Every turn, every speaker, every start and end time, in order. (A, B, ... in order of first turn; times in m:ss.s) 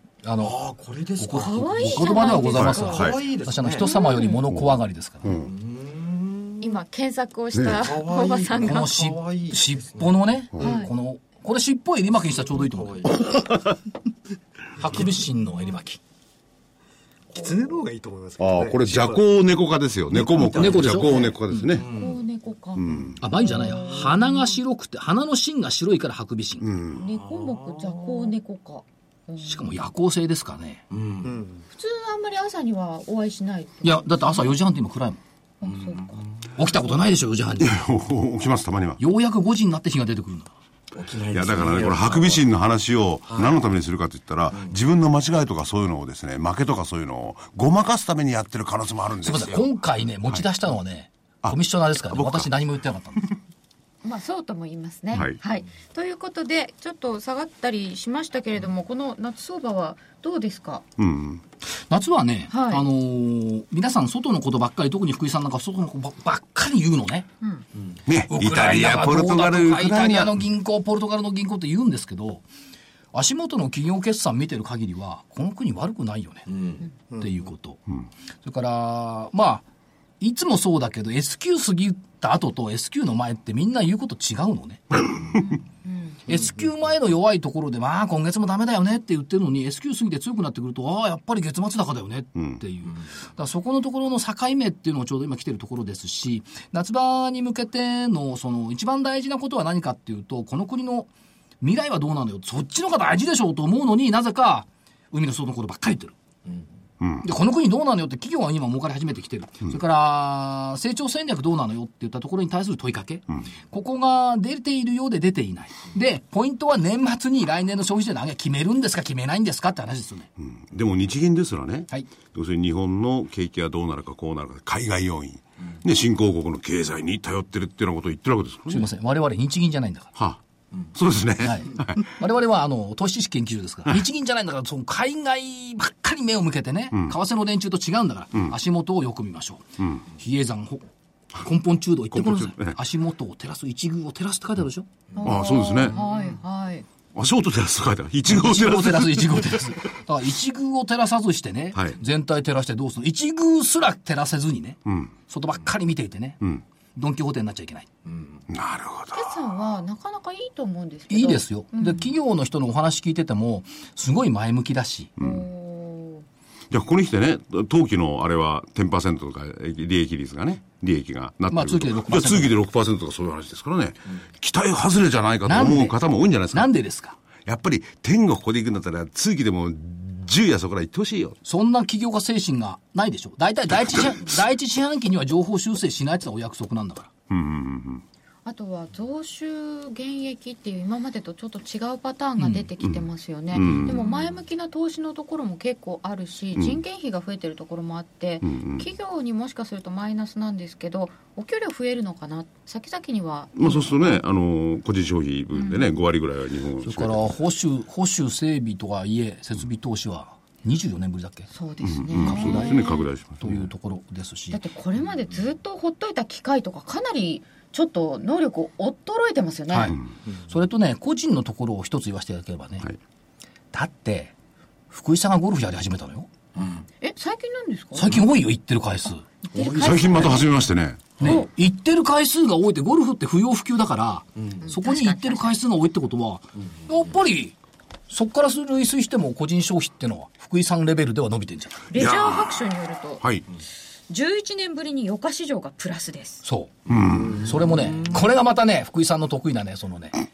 0:00.2-0:00.6 A
0:00.4-0:03.9 B
0:01.2-0:05.3 A
0:01.4-0:03.0 C
0:02.6-0:03.2 D
0:03.8-0:04.4 C
0:04.5-0:05.5 D
0:05.3-0:06.8 B
0:06.6-0:08.9 C
0:07.5-0:07.8 D
0:07.8-0:10.7 B
0:08.6-0:13.0 A
0:10.6-0:10.9 C
0:12.4-0:13.2 B
0:13.2-0:13.7 D
0:14.8-0:16.0 A
0:14.8-0:15.1 B
0:17.3-0:17.8 B
0:17.4-0:19.2 E
0:18.4-0:21.9 D
0:20.1-0:22.2 B
0:20.1-0:21.4 A
0:21.8-0:24.4 C
0:22.8-0:23.2 D
0:22.9-0:24.2 B
0:23.2-0:26.7 A
0:26.6-0:27.0 D
0:27.0-0:29.6 C
0:27.0-0:28.4 B
0:29.4-0:30.8 A
0:30.9-0:31.4 B
0:31.2-0:31.6 E
0:31.7-0:34.5 C
0:33.8-0:35.2 A
0:35.6-0:36.2 C
0:35.6-0:36.6 B
0:36.5-0:37.7 A
0:37.6-0:39.0 D
0:39.0-0:40.5 A
0:40.9-0:42.5 B
0:41.3-0:49.7 D
0:43.3-0:43.7 B
0:44.5-0:44.8 B
0:49.2-0:53.3 A
0:51.4-0:52.5 D
0:54.0-1:00.8 C
0:55.1-0:55.4 D
1:01.0-1:01.4 D
1:01.9-1:07.3 A
1:02.5-1:02.9 C
1:07.8-1:08.0 B
1:08.1-1:10.4 D
1:08.3-1:12.4 A
1:13.1-1:16.5 A
1:16.5-1:16.9 B
1:17.1-1:17.8 A
1:18.4-1:19.6 A
1:20.2-1:25.1 A
1:25.4-1:26.2 C
1:26.3-1:41.1 A
1:32.4-1:32.6 D
1:41.6-1:46.1 A
1:46.4-1:46.7 B
1:47.0-1:47.3 D
1:47.2-2:00.3 A
2:00.4-2:08.9 D
2:08.7-2:10.1 A
2:11.0-2:12.1 D
2:11.4-2:20.9 A
2:21.4-2:24.9 A
2:22.1-2:22.8 D
2:25.1-2:26.4 B
2:25.2-2:26.8 C
2:25.2-2:26.0 D
2:27.2-2:29.7 D
2:28.3-2:36.4 A
2:34.9-2:35.1 D
2:37.0-2:37.9 A
2:38.0-2:38.5 B
2:38.5-2:39.3 D
2:39.1-2:42.1 C
2:41.1-2:45.1 A
2:45.2-2:45.5 D
2:45.2-2:46.2 C
2:46.7-2:56.7 D
2:51.5-2:52.6 A
2:55.4-2:56.0 A
2:56.5-2:57.2 A
2:57.5-3:01.4 D
3:01.4-3:07.1 A
3:07.3-3:08.0 D
3:08.4-3:24.2 C
3:12.4-3:12.7 A
3:12.8-3:14.1 D
3:16.6-3:16.8 D
3:18.4-3:18.9 D
3:23.6-3:27.2 D
3:25.5-3:25.9 C
3:26.8-3:31.5 A
3:31.5-3:33.1 C
3:31.8-3:33.7 D
3:32.2-3:34.6 A
3:34.5-3:40.0 C
3:39.7-3:42.9 A
3:43.7-3:44.3 A
3:44.9-3:46.3 A
3:46.6-3:46.8 B
3:47.0-3:48.2 C
3:47.9-3:49.2 A
3:49.5-3:50.5 C
3:49.5-3:50.5 B
3:49.8-3:51.4 D
3:51.2-3:57.5 A
3:54.4-3:54.7 B
3:54.6-3:55.6 C
3:56.6-3:57.2 B
3:58.1-4:01.9 A
4:01.9-4:03.2 C
4:01.9-4:02.6 D
4:04.1-4:06.4 C
4:06.4-4:10.1 A
4:06.9-4:07.5 D
4:06.9-4:08.3 B